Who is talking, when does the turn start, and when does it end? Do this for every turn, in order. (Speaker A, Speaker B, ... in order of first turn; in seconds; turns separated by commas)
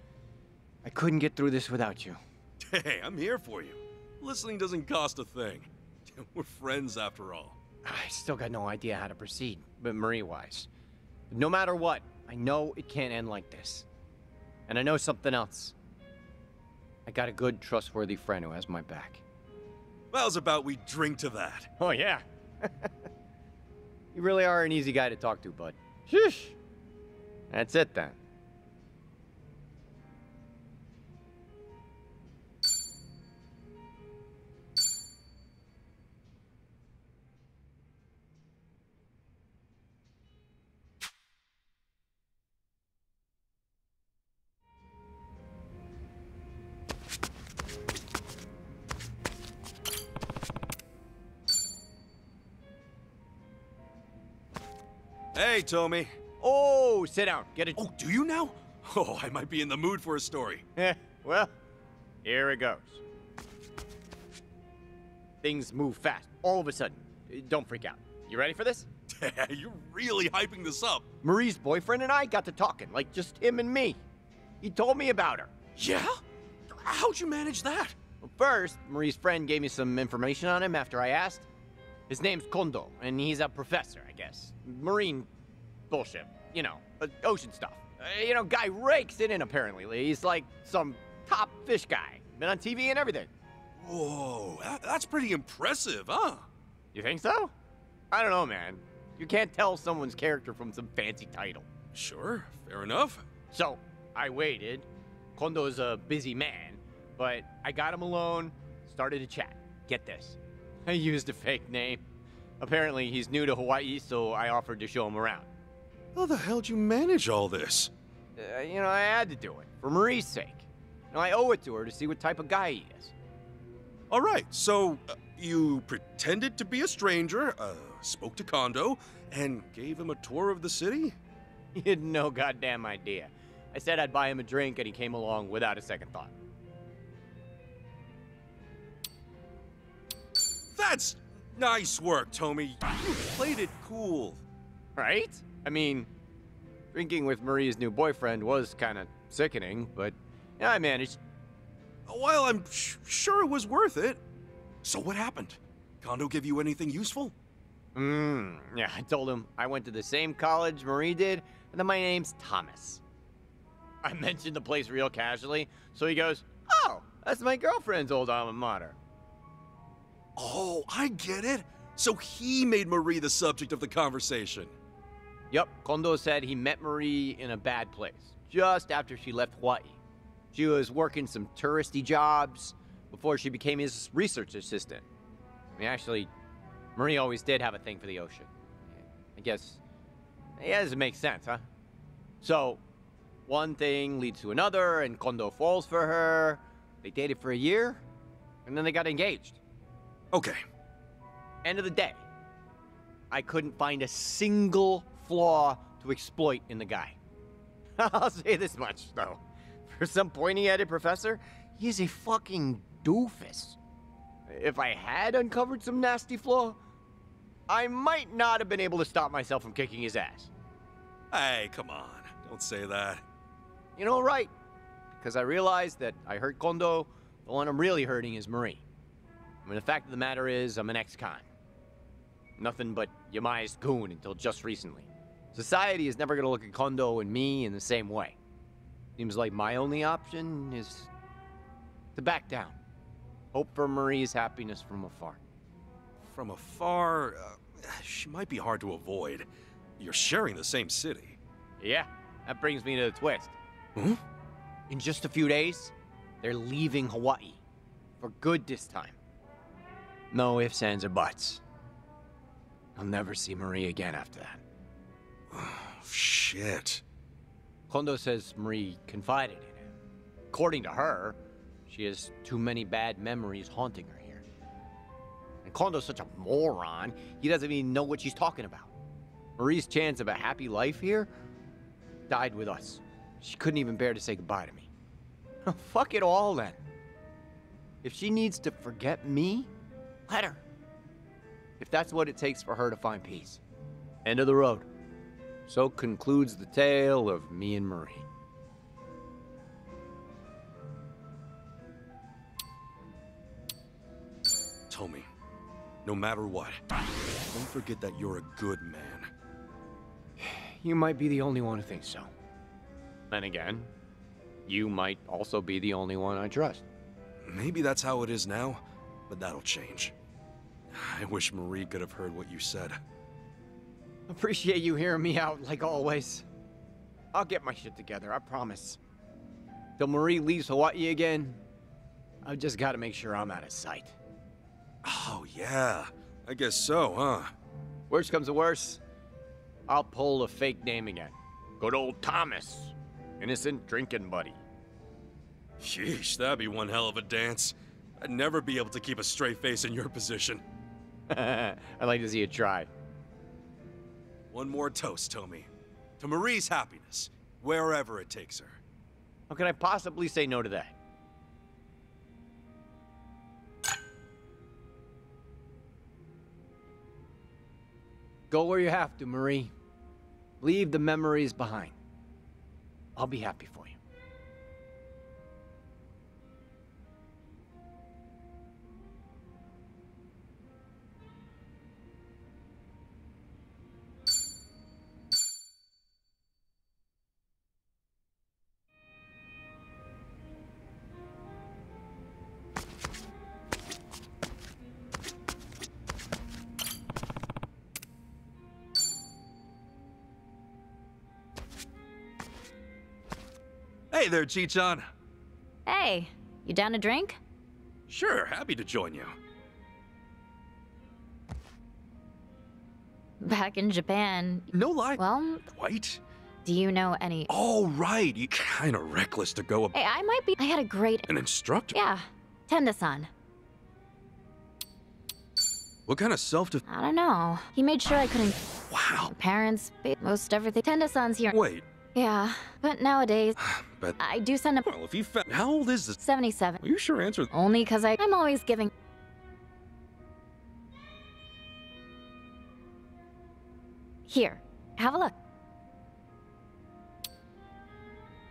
Speaker A: 0.8-2.2, Speaker B: 2.6-7.5, Speaker A: 7.8-10.7, Speaker A: 11.3-13.9, Speaker A: 14.7-15.7, Speaker A: 17.1-19.2, Speaker B: 20.1-21.7, Speaker A: 21.8-22.9, Speaker A: 24.1-26.6, Speaker A: 27.5-28.2, Speaker B: 55.3-56.1, Speaker A: 56.4-57.8, Speaker B: 57.8-60.6, Speaker A: 60.8-61.5, Speaker A: 62.2-63.0, Speaker A: 65.4-68.9, Speaker B: 69.1-71.0, Speaker A: 71.2-74.0, Speaker A: 74.6-75.5, Speaker B: 75.8-78.0, Speaker A: 78.2-81.5, Speaker A: 82.1-85.3, Speaker A: 85.9-93.3, Speaker B: 93.8-96.5, Speaker A: 96.9-97.5, Speaker A: 98.1-101.7, Speaker B: 101.9-103.2, Speaker A: 103.5-112.0, Speaker A: 112.6-115.5, Speaker B: 116.1-117.9, Speaker A: 118.4-123.1, Speaker B: 124.1-131.2, Speaker A: 131.7-136.3, Speaker B: 140.7-144.4, Speaker A: 144.9-146.1, Speaker A: 146.9-151.2, Speaker B: 152.1-154.2, Speaker B: 154.8-157.3, Speaker A: 157.9-163.0, Speaker A: 164.0-169.0, Speaker B: 170.3-174.7, Speaker A: 175.5-180.0, Speaker A: 180.5-185.1, Speaker A: 185.8-186.3, Speaker A: 186.9-189.8, Speaker A: 190.6-191.7, Speaker A: 192.4-192.8, Speaker A: 193.5-198.0, Speaker A: 198.7-199.6, Speaker B: 200.3-200.6, Speaker A: 201.6-202.2, Speaker A: 203.3-207.2, Speaker A: 208.0-213.8, Speaker A: 214.5-216.8, Speaker A: 217.7-220.5, Speaker B: 221.3-223.2, Speaker A: 224.0-224.5, Speaker A: 225.2-228.8, Speaker A: 229.6-231.5, Speaker A: 232.6-238.3, Speaker A: 239.2-241.1, Speaker A: 242.1-242.8, Speaker A: 243.5-245.4, Speaker B: 246.3-249.5, Speaker B: 250.0-251.4, Speaker A: 251.8-253.5, Speaker A: 254.9-257.6, Speaker A: 258.2-259.1, Speaker A: 260.3-261.6, Speaker A: 262.9-264.6, Speaker B: 265.5-267.0, Speaker A: 267.9-269.9, Speaker A: 270.5-274.4, Speaker A: 275.6-278.9, Speaker A: 279.6-281.3, Speaker A: 282.3-284.9, Speaker A: 285.6-286.8, Speaker A: 288.0-289.7, Speaker A: 290.3-290.6, Speaker A: 291.8-293.6, Speaker A: 294.2-294.9, Speaker A: 295.7-298.2, Speaker B: 304.9-305.3, Speaker B: 306.0-306.8, Speaker B: 307.5-309.3, Speaker A: 310.4-312.3, Speaker A: 313.3-313.9, Speaker A: 314.6-316.8, Speaker B: 317.4-320.1, Speaker B: 320.9-323.0, Speaker A: 324.3-326.4, Speaker A: 327.3-329.0, Speaker A: 330.0-331.6, Speaker A: 332.4-334.1, Speaker B: 335.0-337.5, Speaker A: 338.1-339.0, Speaker A: 339.9-344.6, Speaker B: 345.8-350.6, Speaker A: 351.3-352.9, Speaker B: 354.5-355.7, Speaker B: 356.2-358.8, Speaker A: 359.5-360.9, Speaker A: 368.5-369.7, Speaker A: 370.6-371.9, Speaker A: 373.1-373.9, Speaker B: 404.1-405.1, Speaker C: 405.9-407.4, Speaker B: 408.1-409.3, Speaker C: 413.4-415.6, Speaker B: 414.7-416.2, Speaker C: 416.6-417.5, Speaker B: 417.5-419.9, Speaker C: 419.9-421.3, Speaker B: 421.3-421.9, Speaker C: 421.9-423.3, Speaker B: 426.1-426.8, Speaker C: 426.9-428.6, Speaker B: 428.9-429.3, Speaker C: 429.3-431.6, Speaker B: 431.5-431.9, Speaker C: 432.1-433.6, Speaker B: 433.6-434.2, Speaker C: 434.2-434.9, Speaker B: 434.8-436.2, Speaker C: 436.2-436.8, Speaker B: 436.8-437.5, Speaker C: 437.5-438.9, Speaker C: 444.3-445.3